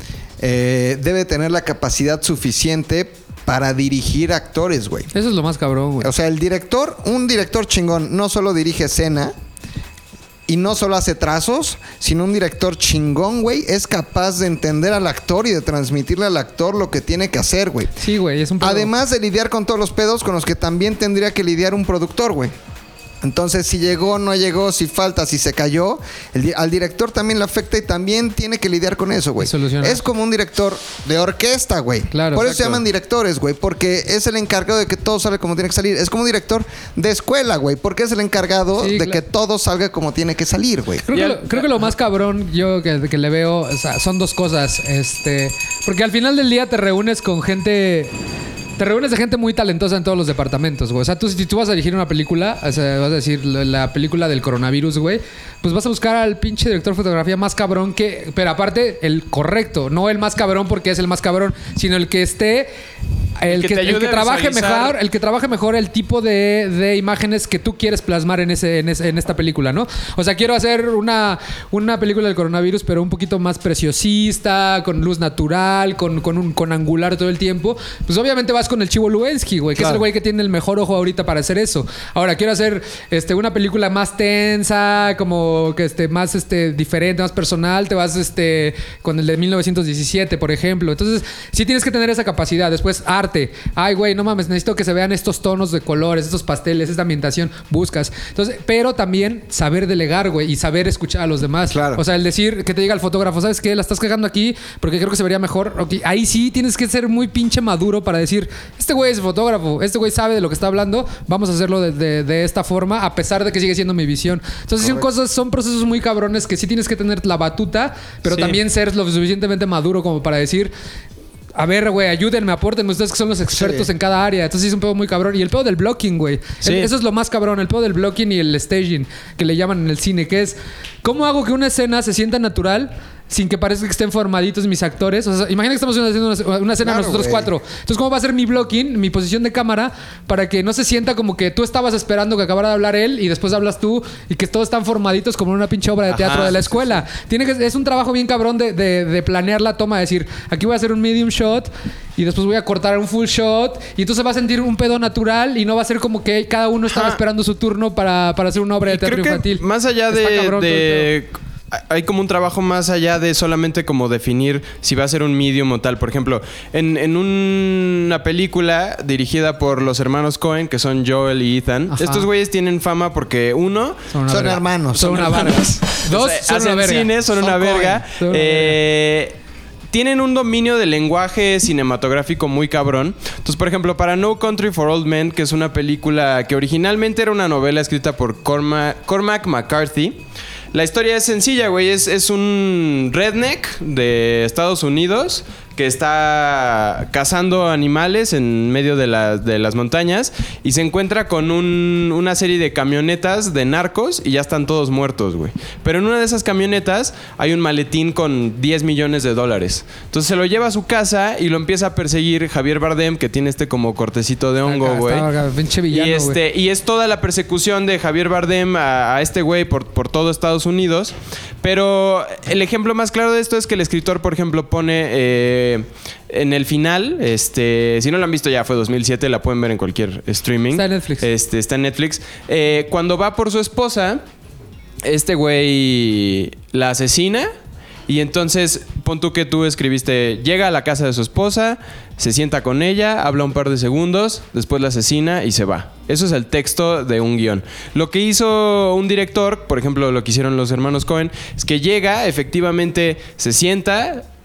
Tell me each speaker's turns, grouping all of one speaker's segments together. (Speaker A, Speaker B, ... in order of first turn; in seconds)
Speaker A: 0.4-5.1, 6.0-9.3, 10.5-17.9, 18.6-22.5, 23.2-41.1, 101.7-102.0, 114.8-115.0, 123.5-123.9, 136.8-137.5, 174.3-175.6
Speaker B: 5.1-6.1, 18.0-18.9, 29.4-30.0, 32.1-32.8, 38.8-39.2, 41.1-48.1, 48.8-62.7, 63.4-120.7, 121.5-161.1, 171.9-172.3, 174.1-178.8, 214.7-216.4, 230.7-231.3
Speaker C: 41.1-41.9, 63.5-65.0, 118.3-118.6, 126.6-126.9, 146.1-146.7, 156.9-157.2, 158.8-174.0, 175.0-179.4, 179.9-190.2, 190.7-215.3, 215.9-234.2, 235.0-237.5, 238.1-254.2